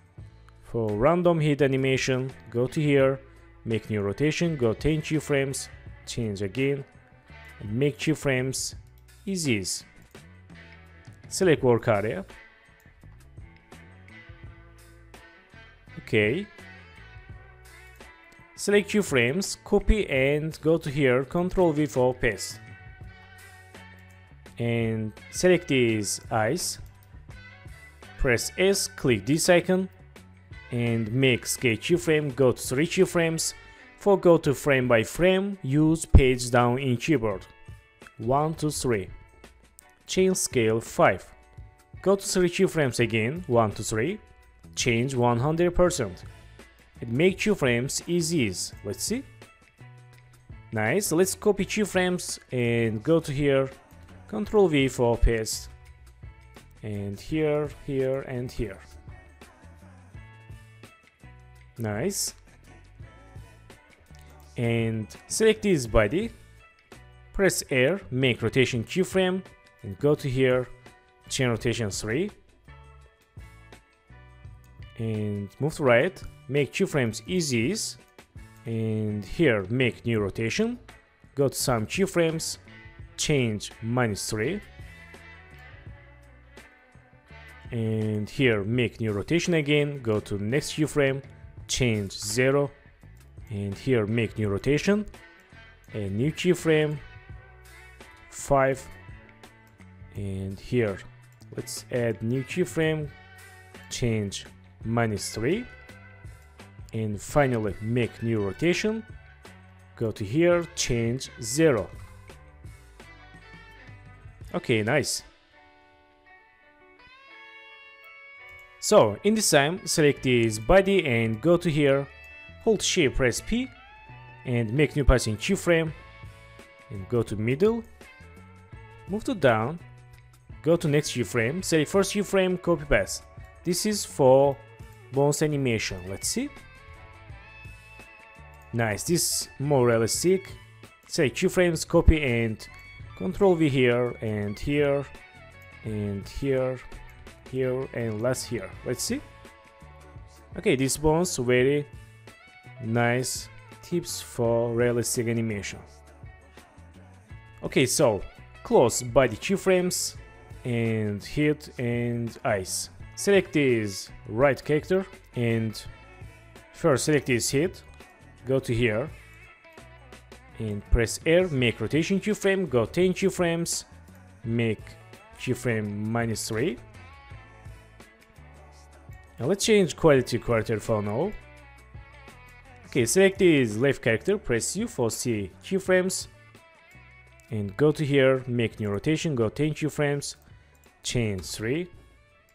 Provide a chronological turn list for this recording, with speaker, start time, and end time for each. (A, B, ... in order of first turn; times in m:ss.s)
0:00.6-0:06.9 A
0:07.6-0:09.9 A
0:11.3-0:12.3 A
0:16.0-0:16.5 A
0:18.6-0:22.6 A
0:24.6-0:26.8 A
0:28.2-0:29.9 A
0:30.7-0:37.5 A
0:38.2-0:39.1 A
0:40.1-0:41.3 A
0:42.0-0:44.2 A
0:44.7-0:46.2 A
0:47.0-0:49.3 A
0:50.7-0:53.7 A
0:54.3-0:55.7 A
0:56.8-0:58.8 A
1:01.8-1:02.4 A
1:04.6-1:06.3 A
1:07.3-1:10.7 A
1:11.3-1:12.3 A
1:15.0-1:18.0 A
1:18.6-1:20.8 A
1:21.3-1:22.6 A
1:23.2-1:24.6 A
1:27.7-1:32.7 A
1:33.5-1:35.1 A
1:35.9-1:37.0 A
1:38.3-1:38.9 A
1:40.1-1:43.1 A
1:43.9-1:45.7 A
1:46.9-1:49.1 A
1:50.0-1:51.9 A
1:54.5-1:55.3 A
1:58.8-2:02.1 A
2:02.6-2:03.7 A
2:04.4-2:06.0 A
2:06.9-2:07.9 A
2:09.1-2:09.8 A
2:10.6-2:16.5 A
2:18.7-2:25.1 A
2:25.8-2:26.8 A
2:27.5-2:29.2 A
2:30.5-2:31.9 A
2:32.8-2:35.9 A
2:37.6-2:45.9 A
2:46.7-2:47.9 A
2:48.4-2:49.1 A
2:50.6-2:53.9 A
2:54.4-2:56.8 A
2:59.4-3:01.4 A
3:02.8-3:06.3 A
3:07.5-3:10.4 A
3:11.0-3:11.9 A